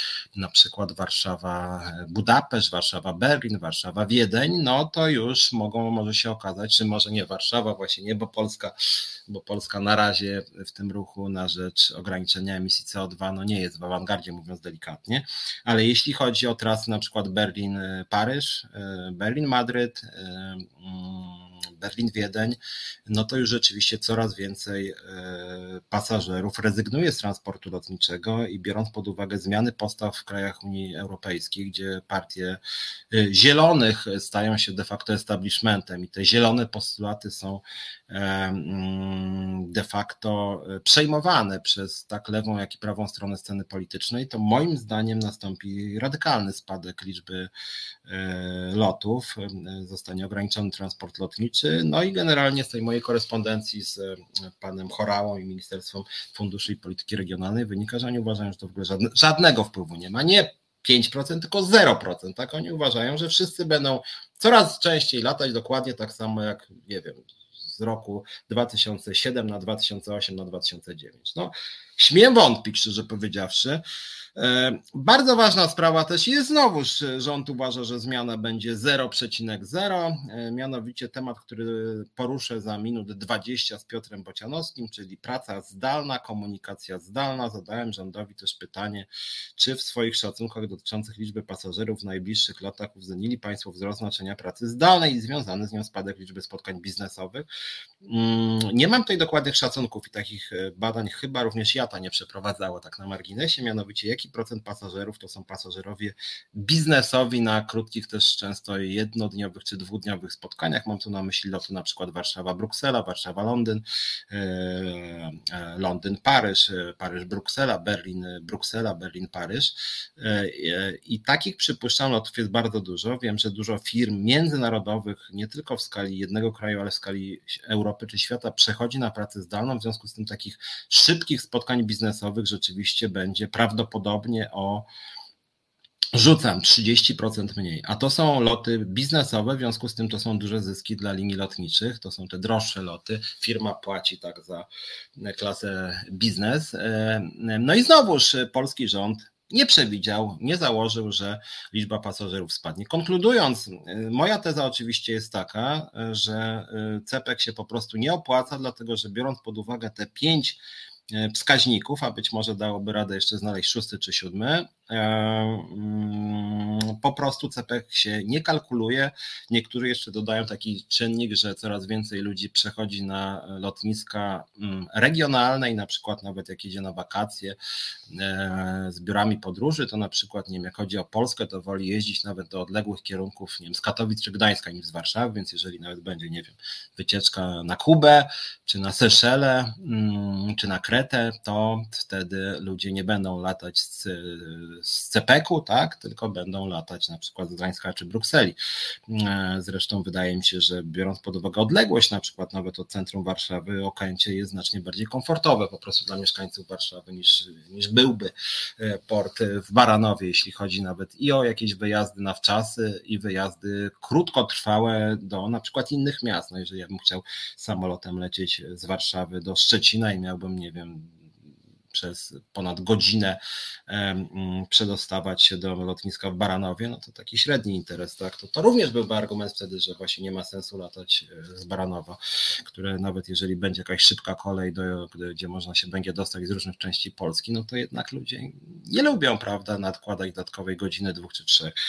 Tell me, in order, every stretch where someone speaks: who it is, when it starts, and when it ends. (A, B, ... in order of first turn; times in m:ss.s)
0:00.4-0:08.7 A
0:09.3-0:32.6 A
0:33.1-0:47.5 A
0:48.0-1:13.8 A
1:14.4-1:37.5 A
1:38.0-2:14.9 A
2:16.1-2:40.6 A
2:41.1-2:57.6 A
2:58.1-3:18.6 A
3:19.1-3:41.2 A
3:41.9-4:01.7 A